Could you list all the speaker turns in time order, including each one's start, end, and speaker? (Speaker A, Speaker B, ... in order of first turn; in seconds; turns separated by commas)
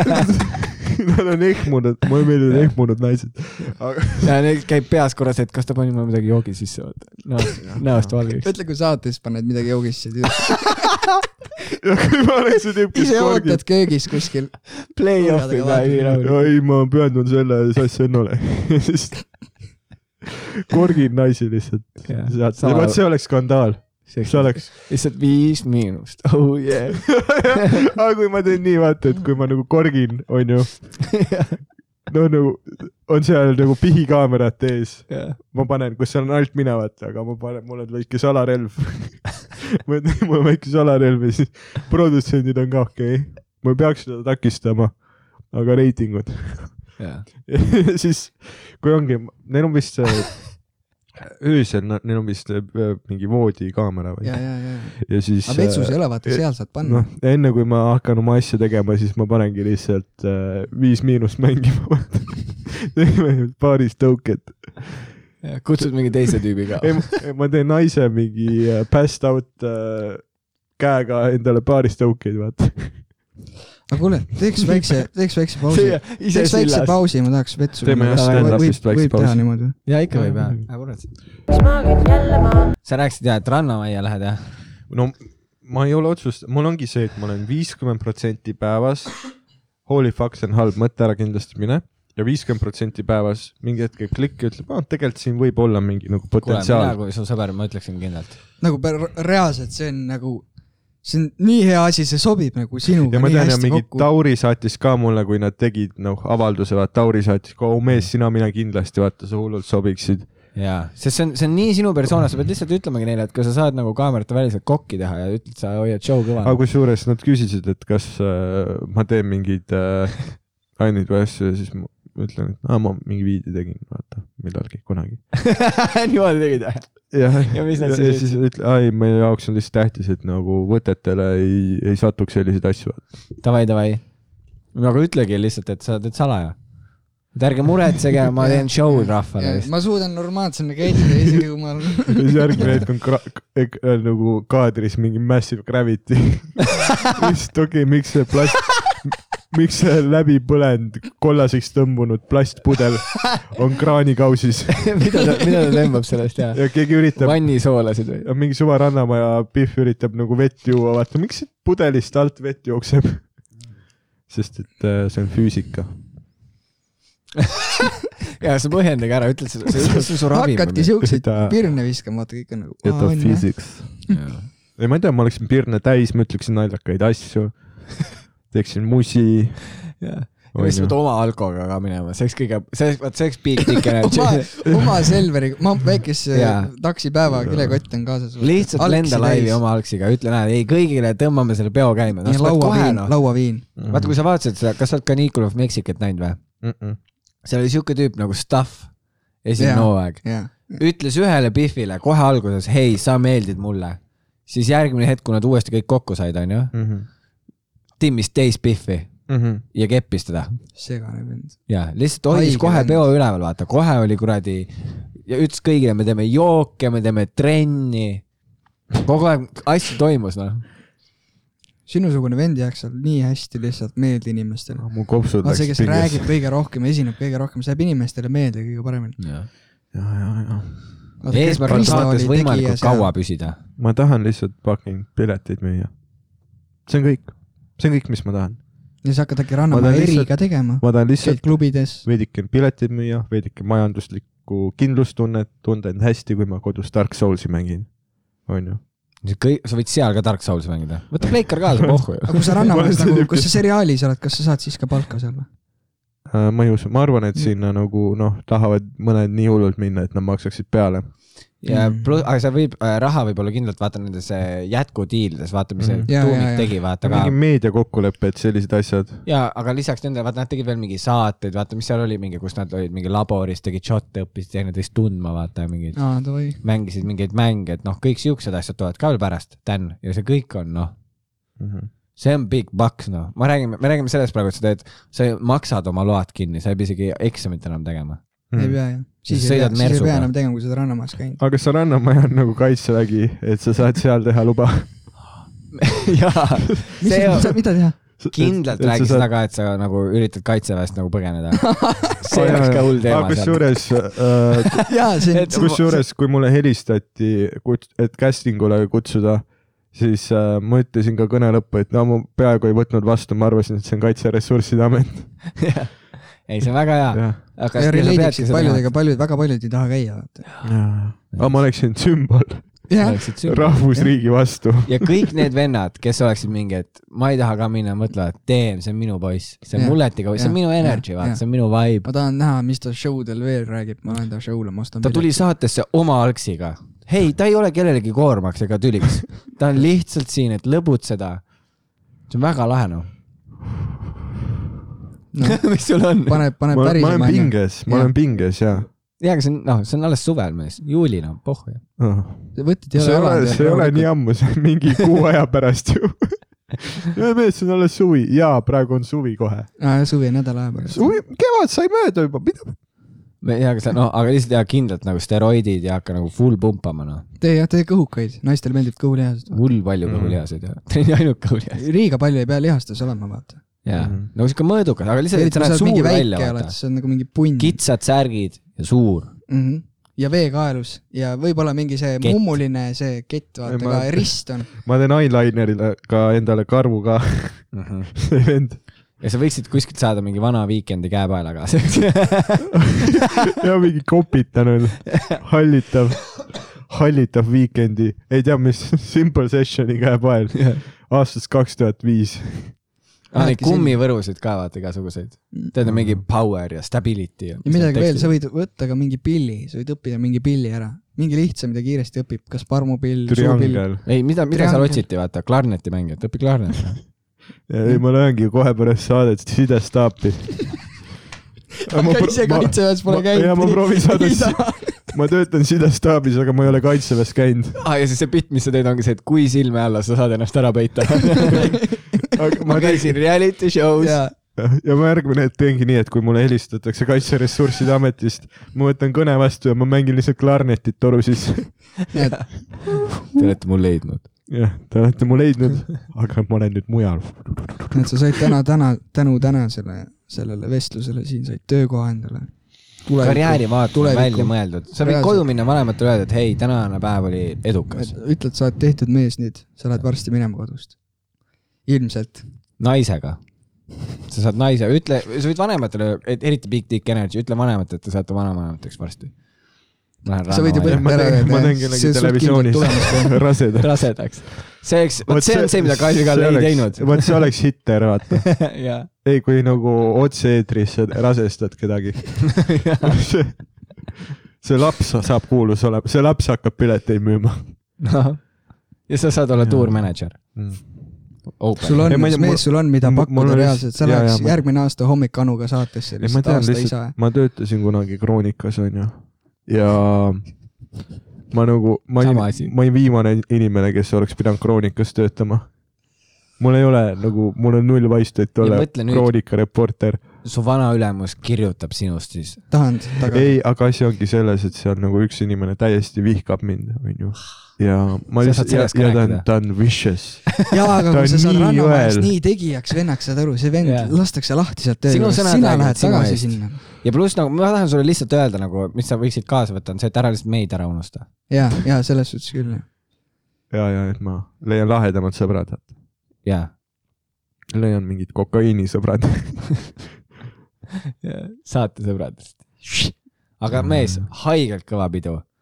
Speaker A: 0.2-4.3, Speaker B: 2.5-2.8, Speaker B: 4.2-8.5, Speaker A: 7.6-8.1, Speaker C: 8.4-10.9, Speaker A: 11.8-13.6, Speaker C: 12.9-16.1, Speaker B: 14.8-16.5, Speaker A: 16.2-19.6, Speaker A: 20.7-24.7, Speaker B: 22.1-23.5, Speaker B: 24.1-27.9, Speaker A: 27.1-31.4, Speaker B: 31.1-31.6, Speaker A: 32.1-50.6, Speaker B: 35.1-35.4, Speaker B: 47.0-47.2, Speaker A: 51.2-65.1, Speaker C: 54.2-57.1, Speaker B: 65.4-67.2, Speaker A: 65.8-73.2, Speaker C: 73.9-79.8, Speaker B: 75.7-77.0, Speaker A: 77.8-79.5, Speaker B: 78.1-78.7, Speaker B: 79.8-81.2, Speaker A: 80.2-80.7, Speaker B: 82.8-84.5, Speaker A: 84.9-97.0, Speaker B: 96.4-98.4, Speaker C: 98.6-100.5, Speaker C: 101.0-104.1, Speaker A: 103.1-110.3, Speaker B: 110.5-116.6, Speaker A: 116.4-125.2, Speaker B: 125.3-128.3, Speaker A: 127.1-133.0, Speaker B: 133.4-134.1, Speaker B: 134.7-136.6, Speaker B: 137.3-139.7, Speaker C: 138.4-142.6, Speaker A: 142.1-154.9, Speaker B: 142.6-142.8, Speaker B: 154.8-158.3, Speaker A: 156.5-157.7, Speaker A: 158.2-163.3, Speaker A: 164.3-165.9, Speaker B: 168.3-170.9, Speaker C: 170.3-173.9, Speaker A: 171.0-171.6, Speaker A: 172.8-174.1, Speaker B: 174.1-174.5, Speaker A: 174.8-179.9, Speaker B: 180.0-185.2, Speaker A: 180.5-180.9, Speaker C: 183.8-189.6, Speaker B: 186.3-186.7, Speaker A: 187.3-187.8, Speaker B: 188.4-193.1, Speaker C: 192.2-193.7, Speaker A: 193.8-194.2, Speaker B: 193.8-196.4, Speaker A: 196.6-197.0, Speaker B: 197.4-198.9, Speaker B: 199.4-206.7, Speaker C: 199.6-200.8, Speaker A: 206.7-207.1, Speaker B: 208.0-209.2, Speaker A: 209.3-209.6, Speaker B: 209.7-210.6, Speaker C: 210.7-211.6, Speaker B: 211.7-218.2, Speaker C: 212.3-213.1, Speaker B: 219.0-220.6, Speaker C: 221.9-229.2, Speaker A: 224.8-226.3, Speaker B: 229.2-229.5, Speaker A: 229.9-231.1, Speaker C: 231.2-233.1, Speaker B: 231.3-233.6, Speaker A: 231.7-232.1, Speaker A: 233.8-235.9, Speaker A: 236.8-238.6, Speaker C: 239.0-242.1, Speaker A: 239.7-248.8, Speaker B: 249.2-252.8, Speaker C: 252.3-255.5, Speaker A: 252.6-253.6, Speaker A: 256.3-261.1, Speaker B: 261.6-267.3, Speaker C: 261.7-262.2, Speaker A: 265.8-266.1, Speaker C: 266.1-266.7, Speaker A: 267.0-269.2, Speaker B: 269.2-276.0, Speaker C: 275.9-276.6, Speaker B: 276.6-280.9, Speaker A: 281.6-281.9, Speaker B: 282.2-288.2, Speaker A: 288.5-288.8, Speaker C: 288.6-291.4, Speaker B: 289.3-290.3, Speaker A: 291.4-294.9, Speaker B: 295.7-305.9, Speaker C: 297.0-298.0, Speaker A: 298.2-299.2, Speaker C: 301.6-302.2, Speaker A: 302.3-315.5, Speaker C: 304.9-306.1, Speaker B: 315.6-318.9, Speaker A: 317.1-317.4, Speaker C: 317.8-320.6, Speaker A: 320.6-325.3, Speaker C: 322.9-323.4, Speaker B: 323.0-323.9, Speaker B: 324.9-332.1, Speaker C: 329.8-331.4, Speaker C: 332.0-335.4, Speaker B: 335.0-341.4, Speaker B: 342.3-343.1, Speaker C: 345.3-345.7, Speaker B: 345.4-346.4, Speaker C: 346.2-348.1, Speaker A: 346.7-348.9, Speaker B: 349.2-351.8, Speaker A: 352.0-359.7, Speaker C: 352.5-354.1, Speaker C: 359.8-361.2, Speaker A: 360.9-362.8, Speaker B: 363.4-367.2, Speaker C: 367.4-369.6, Speaker B: 369.5-371.8, Speaker A: 370.0-370.4, Speaker C: 371.8-373.6, Speaker B: 373.8-376.8, Speaker A: 373.9-374.3, Speaker C: 375.3-377.8, Speaker B: 377.6-379.3, Speaker C: 379.5-384.7, Speaker B: 382.2-382.5, Speaker A: 383.6-388.8, Speaker B: 387.7-388.1, Speaker B: 389.2-392.9, Speaker A: 393.2-402.8, Speaker B: 395.1-395.4, Speaker B: 400.5-400.8, Speaker B: 403.3-408.3, Speaker C: 403.3-404.0, Speaker A: 405.8-406.2, Speaker C: 407.6-415.0, Speaker A: 413.3-414.0, Speaker B: 414.0-417.0, Speaker A: 417.7-420.9, Speaker C: 421.8-425.1, Speaker A: 421.9-427.8, Speaker B: 427.8-431.7, Speaker C: 431.4-432.3, Speaker A: 432.3-433.2, Speaker B: 432.6-434.2, Speaker C: 434.0-434.3, Speaker A: 434.6-442.0, Speaker C: 442.1-442.4, Speaker B: 443.2-444.2, Speaker A: 444.5-448.4, Speaker C: 447.9-455.4, Speaker B: 453.2-458.1, Speaker C: 457.9-460.9, Speaker C: 461.9-462.4, Speaker B: 462.8-463.4, Speaker B: 464.3-469.3, Speaker B: 470.2-471.1, Speaker C: 470.5-473.4, Speaker A: 470.9-474.3, Speaker B: 473.8-477.4, Speaker A: 475.2-478.6, Speaker B: 478.3-479.1, Speaker A: 479.2-483.6, Speaker B: 482.5-483.2, Speaker A: 484.6-487.8, Speaker B: 488.0-490.4, Speaker A: 489.6-491.1, Speaker B: 491.6-492.2, Speaker C: 491.8-497.1, Speaker A: 492.1-494.6, Speaker A: 496.2-500.5, Speaker A: 501.5-505.7, Speaker B: 502.2-502.7, Speaker A: 506.6-510.2, Speaker B: 508.6-509.3, Speaker B: 510.4-512.7, Speaker C: 512.7-513.5, Speaker A: 513.3-522.3, Speaker B: 518.4-519.6, Speaker C: 520.7-526.8, Speaker B: 523.8-524.2, Speaker B: 525.0-531.3, Speaker C: 531.5-532.9, Speaker A: 533.7-535.9, Speaker B: 536.4-536.7, Speaker A: 537.7-540.0, Speaker B: 541.2-545.4, Speaker A: 543.7-544.3